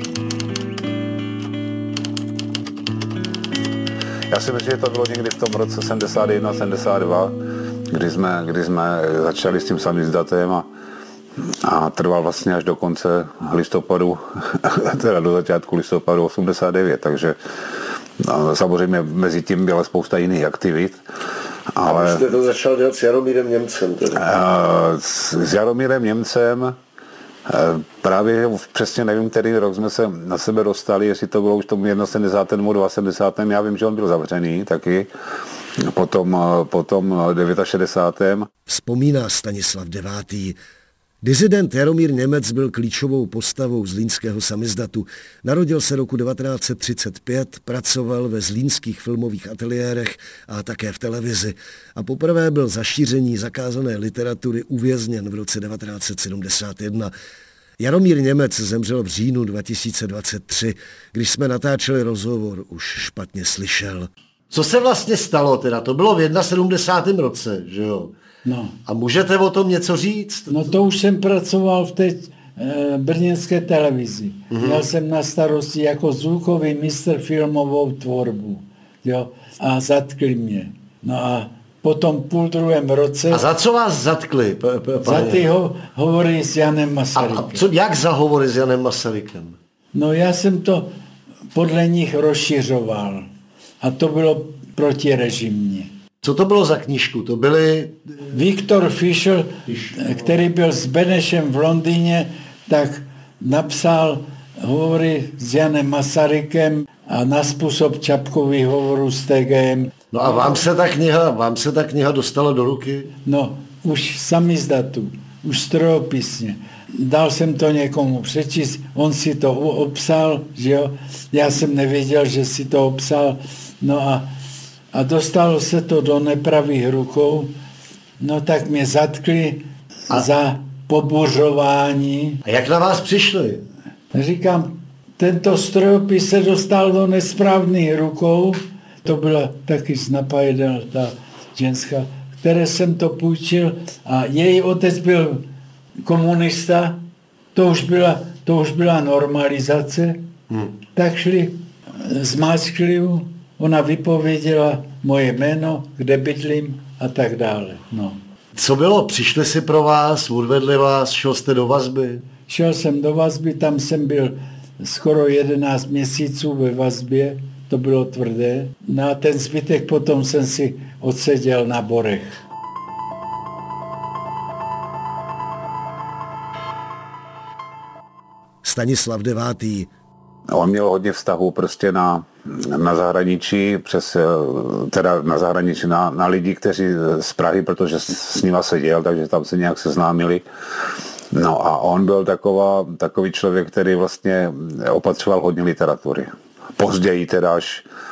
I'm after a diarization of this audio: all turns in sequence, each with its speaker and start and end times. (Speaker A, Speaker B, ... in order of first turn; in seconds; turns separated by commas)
Speaker A: 4.3-7.3, Speaker A: 7.9-10.7, Speaker A: 11.6-17.4, Speaker A: 18.2-21.0, Speaker A: 21.7-22.2, Speaker B: 21.9-24.2, Speaker A: 24.2-26.8, Speaker A: 27.5-35.1, Speaker A: 35.8-38.5, Speaker B: 38.7-40.6, Speaker B: 41.2-57.1, Speaker B: 57.8-68.1, Speaker C: 68.5-68.8, Speaker B: 68.9-70.6, Speaker C: 70.5-83.4, Speaker B: 74.5-74.8, Speaker B: 83.3-85.5, Speaker C: 85.0-87.6, Speaker B: 87.2-89.6, Speaker C: 89.9-91.0, Speaker C: 91.5-93.3, Speaker C: 93.8-95.9, Speaker B: 96.2-98.2, Speaker C: 98.3-109.9, Speaker B: 110.1-113.1, Speaker C: 113.3-124.3, Speaker C: 124.9-127.6, Speaker C: 128.2-132.4, Speaker B: 132.4-133.6, Speaker C: 134.1-145.5, Speaker C: 146.0-147.0, Speaker C: 147.6-150.3, Speaker C: 150.9-158.2, Speaker B: 158.6-162.2, Speaker C: 162.5-172.4, Speaker B: 178.6-179.9, Speaker A: 180.5-190.4, Speaker A: 191.3-197.8